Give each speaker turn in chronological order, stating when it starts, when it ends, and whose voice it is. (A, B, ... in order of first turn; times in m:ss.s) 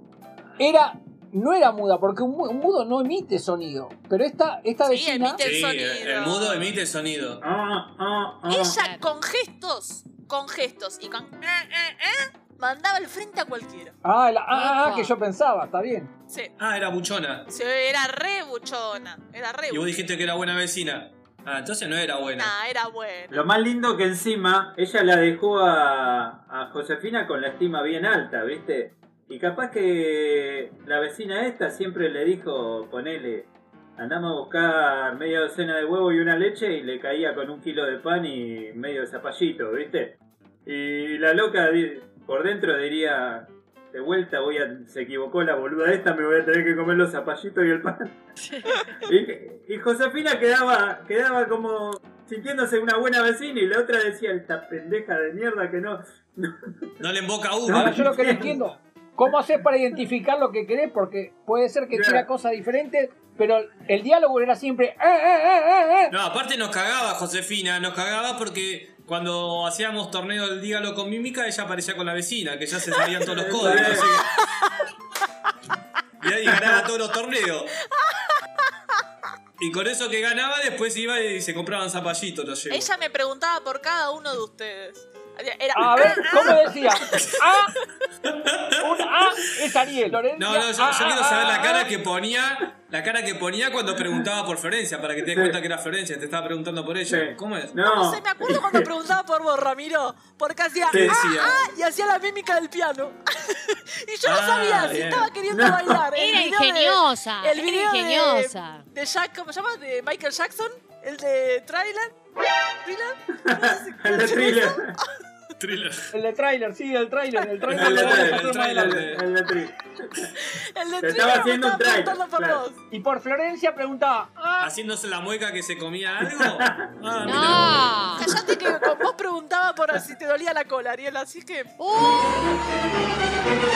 0:00.6-0:05.4 A
0:04.8-0:06.7 B
0:05.4-0:07.4 C
0:07.4-0:08.8 D
0:08.5-0:13.9 B
0:08.8-0:09.0 E
0:14.0-0:16.1 A
0:14.5-0:15.1 E
0:16.6-0:17.5 C
0:17.5-0:19.9 B
0:19.7-0:22.5 C
0:22.4-0:23.4 B
0:23.3-0:48.2 D
0:48.4-0:48.9 E
0:49.0-0:56.8 D
0:57.0-0:58.4 C
0:57.7-0:58.6 D
0:57.7-1:06.1 A
1:01.9-1:02.3 D
1:06.1-1:14.4 C
1:13.2-1:14.2 D
1:13.8-1:14.9 B
1:16.2-1:17.8 C
1:17.8-1:19.0 B
1:19.6-1:22.9 C
1:22.7-1:27.6 B
1:25.7-1:27.7 A
1:28.2-1:29.5 C
1:28.8-1:31.8 A
1:30.4-1:37.7 C
1:35.3-1:35.6 D
1:37.1-1:38.9 D
1:37.7-1:52.1 B
1:40.9-1:41.6 C
1:40.9-1:41.2 D
1:44.2-1:45.3 C
1:45.5-1:46.0 D
1:46.1-1:48.8 E
1:52.8-1:55.1 B
1:53.4-1:54.9 D
1:55.6-1:56.1 C
1:56.1-1:59.2 A
1:57.7-1:59.2 C
1:57.7-2:00.3 D
2:00.4-2:02.8 B
2:01.0-2:02.6 D
2:02.9-2:04.7 A
2:04.6-2:07.8 C
2:06.2-2:06.9 D
2:07.2-2:08.3 E
2:08.2-2:11.8 B
2:11.8-2:12.5 E